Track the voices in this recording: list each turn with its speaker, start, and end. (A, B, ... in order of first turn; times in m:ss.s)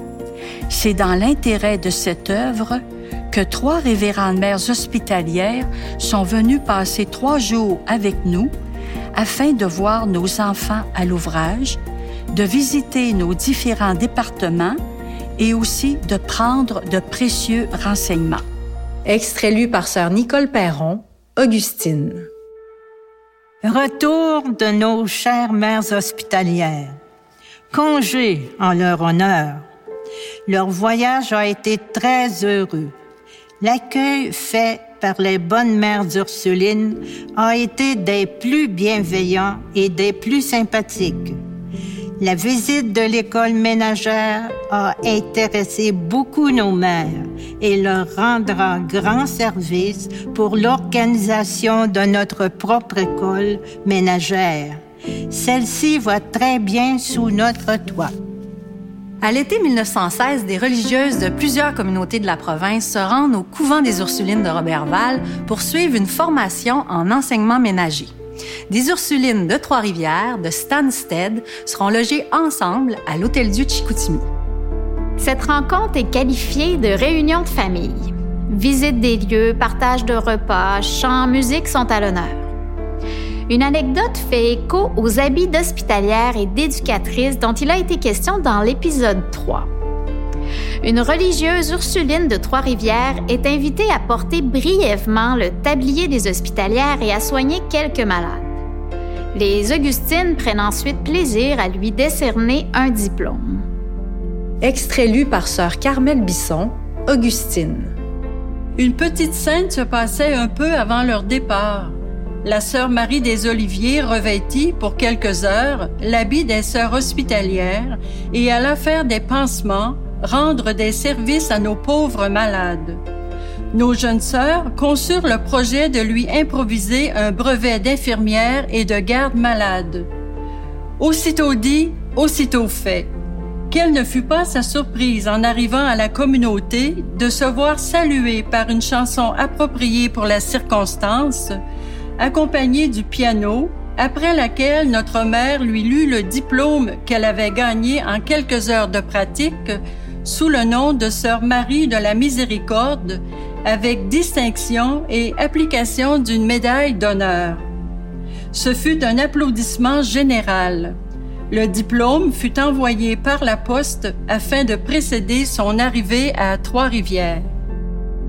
0:00.7-0:08.5 A
0:09.1-0:11.8 A
0:12.3-0:14.8 A
0:15.4-0:18.4 A
0:19.1-0:22.3 B
0:23.6-0:27.0 C
0:27.7-0:29.6 C
0:30.5-0:32.9 C
0:33.6-0:41.4 C
0:42.2-0:58.1 C
0:59.2-1:08.1 B
1:08.7-1:14.3 B
1:15.2-1:22.5 D
1:23.5-1:29.7 D
1:30.8-1:38.5 D
1:39.3-1:43.6 D
1:44.6-1:48.0 B
1:48.8-2:03.0 E
2:03.7-2:10.1 E
2:11.0-2:13.1 E
2:13.7-2:21.6 E
2:22.2-2:37.6 E
2:38.5-2:41.0 E
2:41.5-2:47.5 E